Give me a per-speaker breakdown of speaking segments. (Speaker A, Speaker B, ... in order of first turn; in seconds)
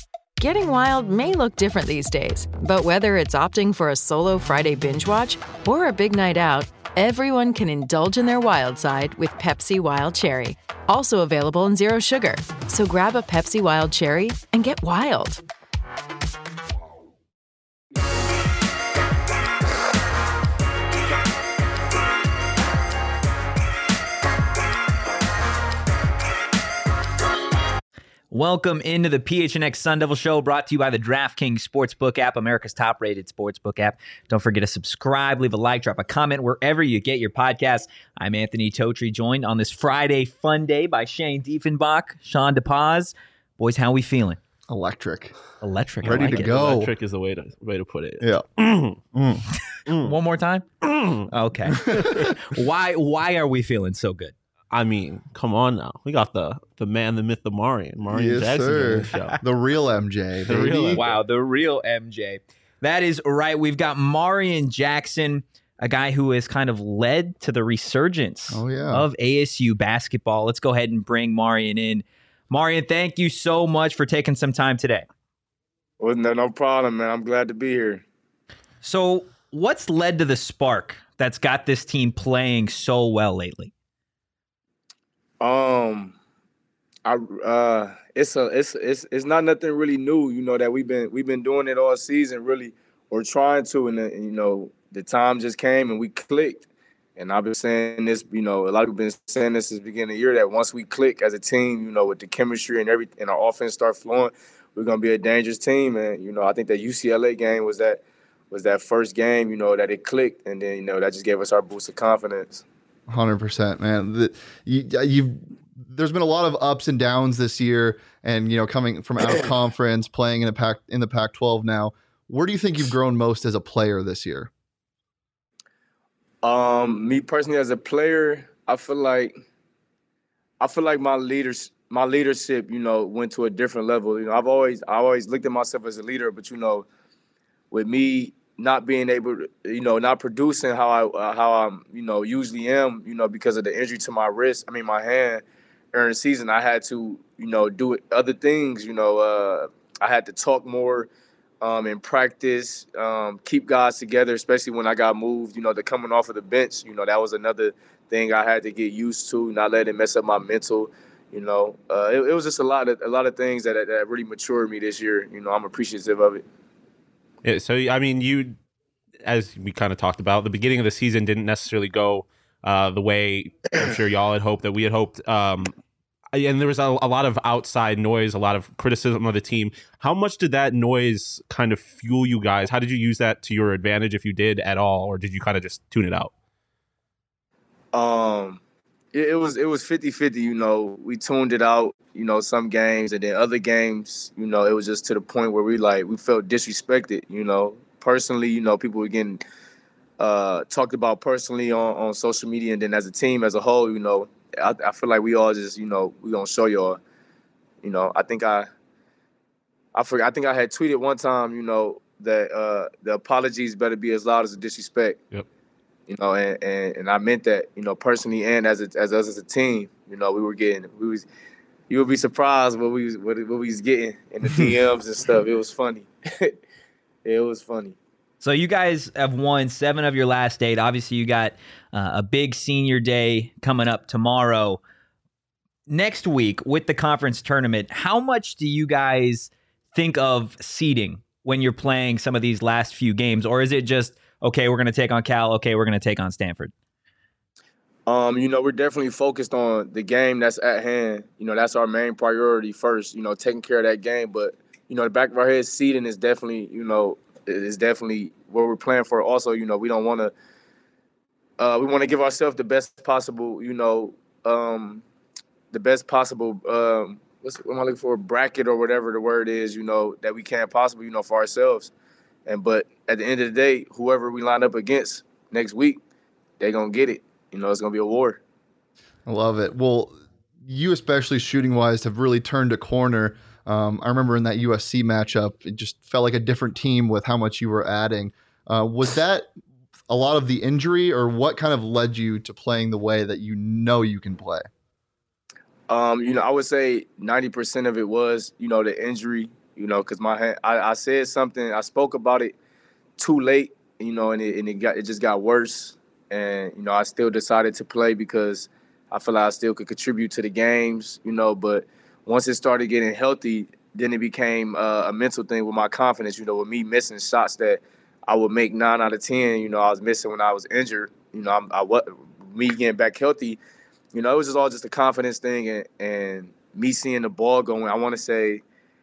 Speaker A: 0.4-15.4
Speaker B: 28.3-44.4, 45.6-46.5, 50.0-50.7, 51.3-54.3, 60.9-75.1, 78.8-83.7, 228.4-234.8, 235.9-246.7
Speaker C: 44.7-45.4, 46.0-46.9, 49.1-49.4, 51.8-52.3, 58.1-61.0, 68.5-69.1, 113.1-124.5, 279.3-289.5, 290.1-294.7
Speaker D: 46.1-49.0, 49.9-50.2, 50.8-52.0, 54.7-59.4, 60.4-61.2, 167.4-168.6, 169.2-175.7, 176.3-186.3
Speaker E: 76.0-78.0, 85.4-86.2, 87.1-96.6, 97.2-112.6, 126.4-129.3, 130.6-136.9, 137.7-151.1, 151.6-166.4, 187.9-188.6, 189.1-199.4, 200.2-207.0, 207.8-208.7, 209.9-215.2, 216.1-221.2, 221.9-226.6, 227.2-228.0, 248.1-260.3, 261.6-265.0, 265.7-271.9, 272.5-276.0, 276.6-278.4, 295.9-302.5, 303.2-323.6, 324.1-328.6